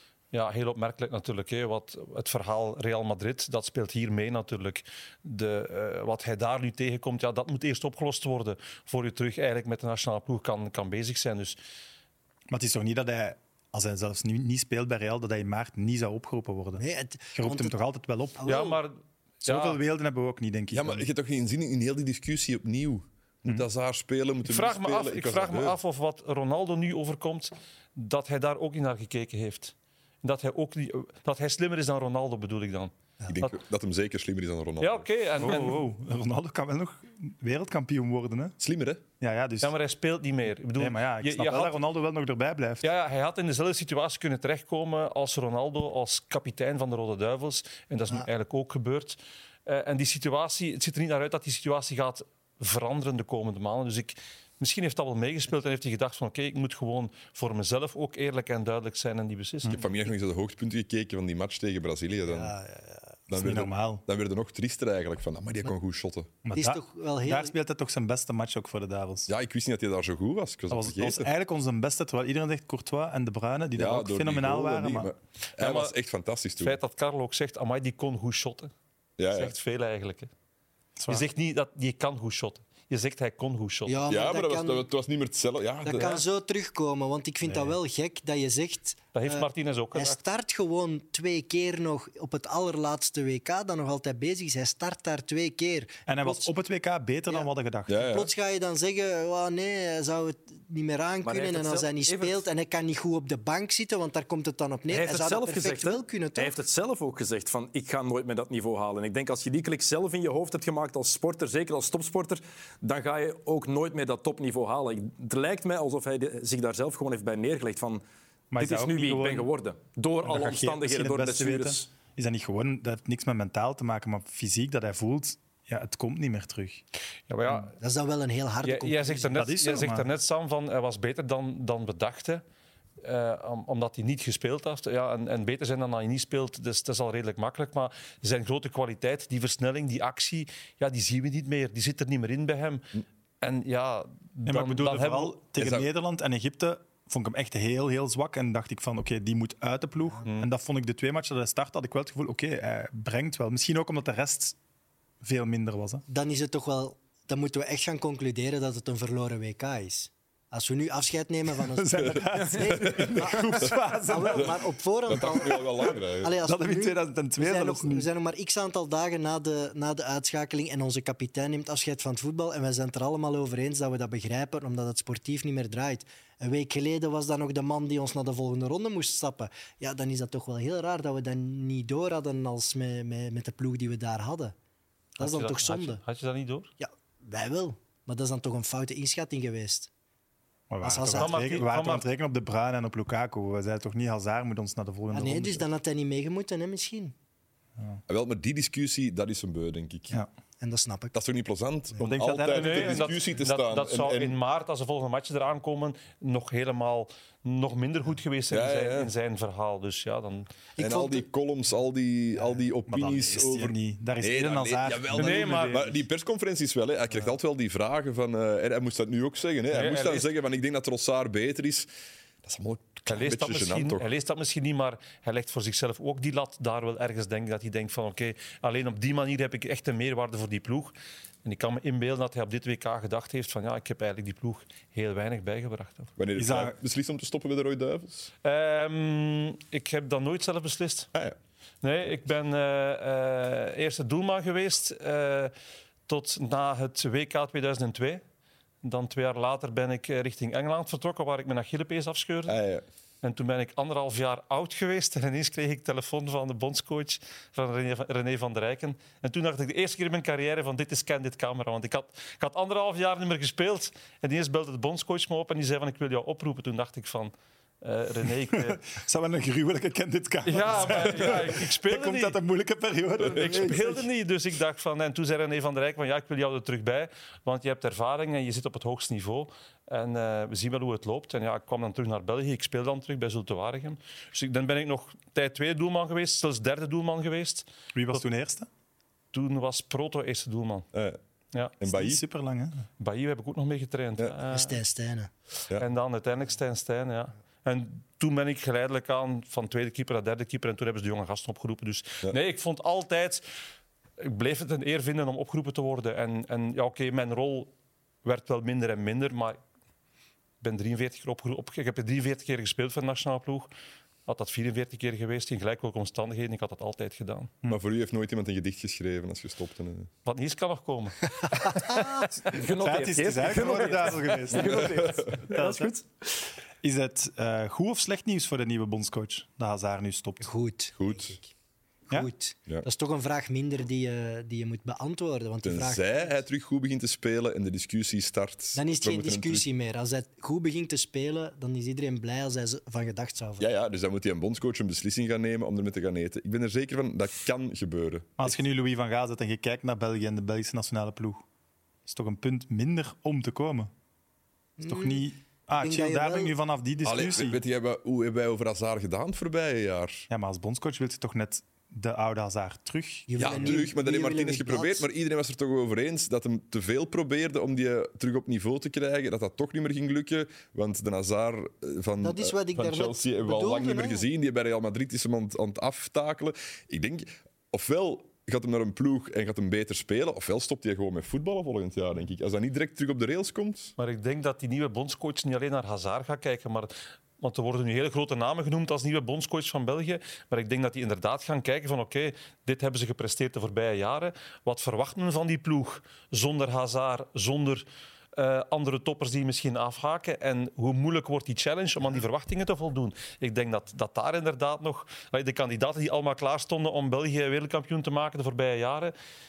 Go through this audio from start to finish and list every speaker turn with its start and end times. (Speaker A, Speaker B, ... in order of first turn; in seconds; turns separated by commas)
Speaker A: 0.3-11.6, Speaker B: 12.5-18.5, Speaker C: 16.8-17.8, Speaker C: 18.4-18.8, Speaker A: 18.4-19.8, Speaker B: 19.4-21.1, Speaker D: 20.7-25.8, Speaker A: 24.4-32.9, Speaker D: 33.3-35.1, Speaker A: 34.8-35.8, Speaker B: 35.4-38.6, Speaker D: 38.6-39.0, Speaker B: 39.2-39.7, Speaker A: 39.6-41.8, Speaker B: 40.8-42.8, Speaker A: 42.8-59.9, Speaker D: 59.7-62.5, Speaker C: 62.3-63.2, Speaker D: 63.3-66.3, Speaker B: 63.3-64.0, Speaker B: 66.4-69.3, Speaker C: 66.5-67.5, Speaker D: 69.3-71.3, Speaker B: 70.7-75.1, Speaker D: 73.8-76.8, Speaker A: 75.6-75.9, Speaker A: 76.6-78.7, Speaker D: 79.2-79.5, Speaker A: 79.3-80.3, Speaker B: 81.0-81.3, Speaker A: 81.1-84.0, Speaker C: 83.9-84.8, Speaker D: 84.1-86.2, Speaker C: 85.8-96.5, Speaker B: 87.5-87.8, Speaker A: 89.1-90.2, Speaker B: 96.0-98.2, Speaker D: 97.9-98.3, Speaker C: 98.0-106.6, Speaker E: 101.2-102.4, Speaker E: 104.9-118.0, Speaker B: 118.5-119.5, Speaker E: 118.6-121.9, Speaker B: 120.2-126.8, Speaker A: 127.3-127.8, Speaker C: 127.8-129.5, Speaker A: 128.6-132.4, Speaker B: 129.3-130.1, Speaker A: 133.0-142.9, Speaker A: 143.4-145.8, Speaker B: 144.4-154.6, Speaker B: 155.2-156.0, Speaker C: 156.1-184.5, Speaker B: 161.7-164.7, Speaker D: 162.0-163.7, Speaker E: 162.3-163.3, Speaker D: 165.1-166.3, Speaker B: 166.4-168.1, Speaker C: 185.2-186.0, Speaker A: 185.2-186.7, Speaker C: 186.8-189.9, Speaker B: 190.7-195.7, Speaker C: 190.8-191.4, Speaker A: 191.1-192.0, Speaker C: 195.1-197.1, Speaker D: 198.1-200.2, Speaker C: 200.6-201.1, Speaker D: 201.1-204.4, Speaker B: 202.0-203.1, Speaker A: 202.5-210.5, Speaker D: 208.5-209.1, Speaker C: 210.8-211.2, Speaker D: 210.8-221.9, Speaker B: 212.9-216.0, Speaker A: 215.2-215.9, Speaker A: 219.7-220.3, Speaker D: 222.4-224.1, Speaker A: 223.1-236.1, Speaker D: 236.2-238.3, Speaker B: 236.3-236.7, Speaker A: 238.4-241.1, Speaker A: 241.8-245.5, Speaker A: 246.1-248.2, Speaker A: 248.8-252.6, Speaker D: 252.5-252.8, Speaker A: 253.2-268.8, Speaker B: 268.5-274.1, Speaker A: 270.4-272.4, Speaker D: 273.2-273.7, Speaker A: 273.3-288.2, Speaker B: 287.9-288.7, Speaker A: 289.3-290.9, Speaker D: 290.9-291.2, Speaker D: 291.8-292.2, Speaker B: 291.9-292.9, Speaker A: 293.0-294.8, Speaker C: 294.5-295.3, Speaker A: 295.7-303.4, Speaker A: 304.2-307.7, Speaker A: 308.2-309.6, Speaker A: 310.6-313.7, Speaker A: 314.3-317.5, Speaker D: 317.7-320.1, Speaker A: 320.2-321.4, Speaker C: 321.5-322.2, Speaker E: 322.4-326.0, Speaker B: 322.6-326.0, Speaker D: 324.6-325.4, Speaker B: 326.8-330.5, Speaker C: 330.4-331.5, Speaker D: 331.0-331.4, Speaker C: 332.1-336.4, Speaker D: 335.6-339.6, Speaker C: 338.7-343.7, Speaker D: 343.6-348.6, Speaker B: 348.4-351.4, Speaker B: 352.1-353.9, Speaker C: 354.8-355.3, Speaker B: 354.8-357.6, Speaker C: 355.8-356.5, Speaker D: 357.0-360.3, Speaker B: 360.3-363.7, Speaker C: 363.3-365.1, Speaker D: 363.4-383.9, Speaker C: 372.2-374.2, Speaker A: 384.0-409.1